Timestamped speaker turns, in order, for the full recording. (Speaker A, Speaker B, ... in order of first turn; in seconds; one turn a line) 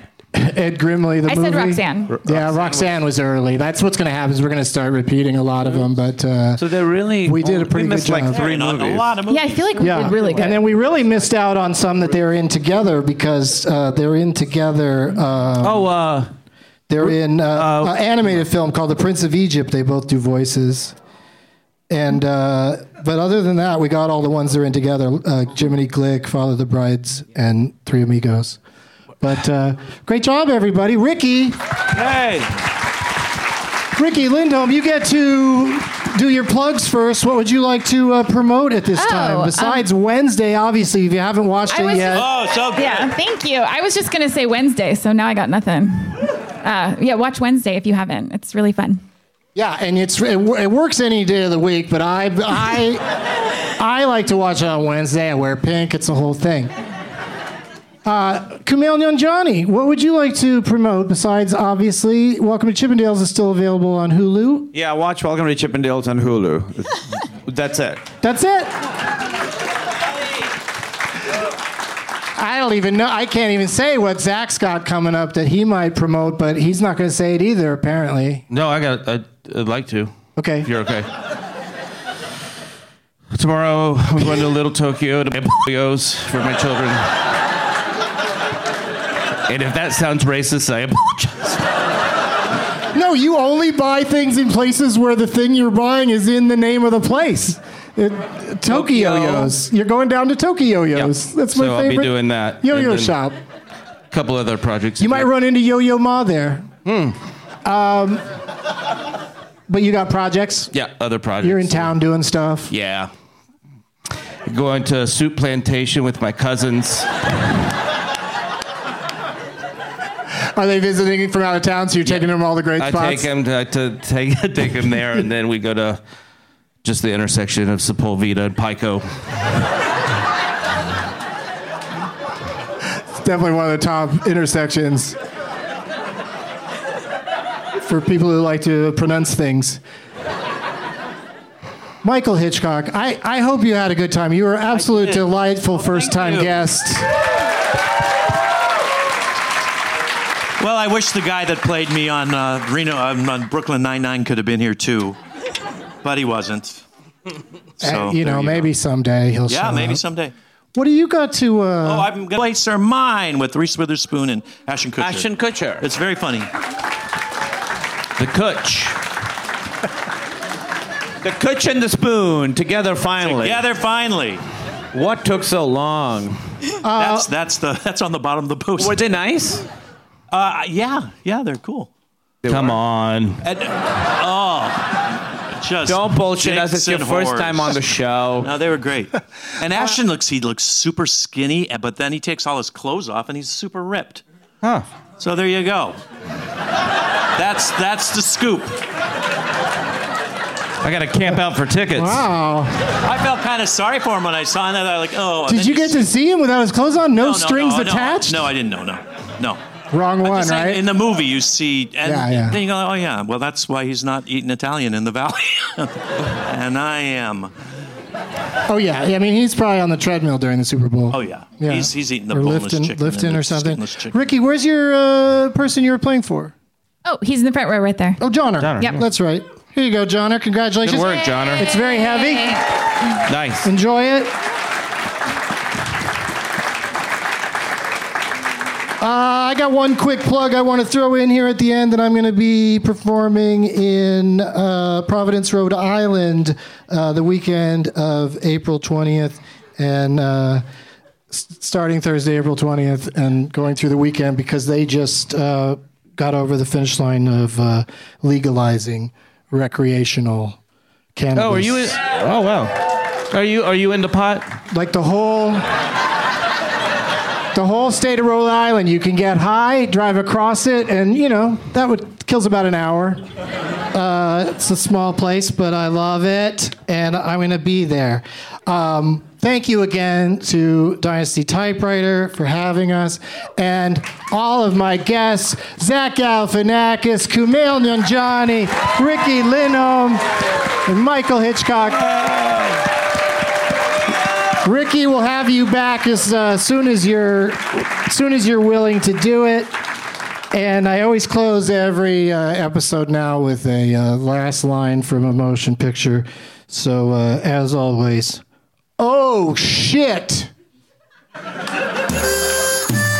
Speaker A: 0.3-6.6
Speaker B: 1.2-2.2
Speaker C: 2.1-2.9
Speaker C: 6.6-9.2
Speaker A: 7.2-8.5
Speaker D: 8.3-10.4
Speaker B: 9.3-10.7
Speaker A: 9.8-15.8
Speaker E: 15.6-16.3
Speaker A: 16.9-20.9
Speaker E: 17.0-17.9
Speaker A: 21.9-28.6
Speaker A: 29.2-31.6
Speaker D: 31.9-32.5
Speaker A: 33.9-42.3
Speaker B: 38.9-39.9
Speaker B: 41.7-49.0
Speaker D: 42.1-43.1
Speaker A: 49.5-53.0
Speaker A: 53.8-56.7
Speaker A: 58.0-64.7
Speaker C: 64.7-68.0
Speaker A: 68.2-68.7
Speaker A: 72.3-78.4
Speaker E: 78.5-80.1
Speaker A: 80.3-80.7
Speaker E: 80.6-81.1
Speaker E: 83.3-87.1
Speaker E: 89.5-91.6
Speaker A: 92.9-103.3
Speaker E: 99.0-99.5
Speaker E: 100.9-103.2
Speaker E: 104.1-105.3
Speaker A: 105.0-106.7
Speaker E: 106.8-107.1
Speaker A: 107.6-108.2
Speaker A: 109.7-110.7
Speaker E: 110.7-111.9
Speaker A: 111.4-112.7
Speaker E: 112.7-113.1
Speaker E: 114.5-117.1
Speaker A: 120.5-123.3
Speaker E: 122.8-126.0
Speaker E: 126.8-129.1
Speaker A: 133.1-135.2
Speaker A: 137.8-139.8
Speaker A: 142.0-147.1
Speaker D: 144.8-146.6
Speaker D: 150.6-155.2
Speaker D: 156.0-156.8
Speaker D: 157.8-158.7
Speaker A: 157.8-160.0
Speaker D: 159.5-160.3
Speaker A: 160.7-162.1
Speaker D: 161.8-165.3
Speaker C: 165.0-165.8
Speaker D: 165.8-166.5
Speaker E: 168.2-168.9
Speaker C: 171.2-173.6
Speaker D: 173.2-174.4
Speaker C: 174.9-176.4
Speaker A: 176.8-177.3
Speaker D: 177.0-179.0
Speaker C: 178.8-179.7
Speaker D: 180.3-181.9
Speaker C: 182.4-182.8
Speaker E: 182.4-183.4
Speaker D: 183.4-184.9
Speaker D: 185.5-187.8
Speaker C: 185.8-188.5
Speaker D: 188.4-194.2
Speaker D: 195.2-196.0
Speaker D: 197.3-198.8
Speaker E: 200.8-202.2
Speaker A: 201.9-202.7
Speaker D: 203.0-206.1
Speaker A: 205.5-208.5
Speaker D: 207.2-209.6
Speaker A: 209.9-210.8
Speaker D: 210.2-217.5
Speaker A: 212.0-212.6
Speaker A: 218.7-226.5
Speaker D: 221.1-224.2
Speaker B: 227.0-228.2
Speaker A: 228.2-232.6
Speaker E: 228.6-229.0
Speaker E: 230.8-231.7
Speaker B: 231.8-232.6
Speaker E: 233.3-233.7
Speaker A: 233.6-234.3
Speaker A: 239.0-250.6
Speaker A: 251.3-260.6
Speaker A: 261.1-261.9
Speaker E: 261.3-264.6
Speaker A: 264.7-265.6
Speaker A: 267.5-273.2
Speaker A: 273.9-290.2
Speaker A: 290.8-292.4
Speaker A: 294.6-299.8
Speaker A: 300.5-308.4
Speaker A: 309.0-310.5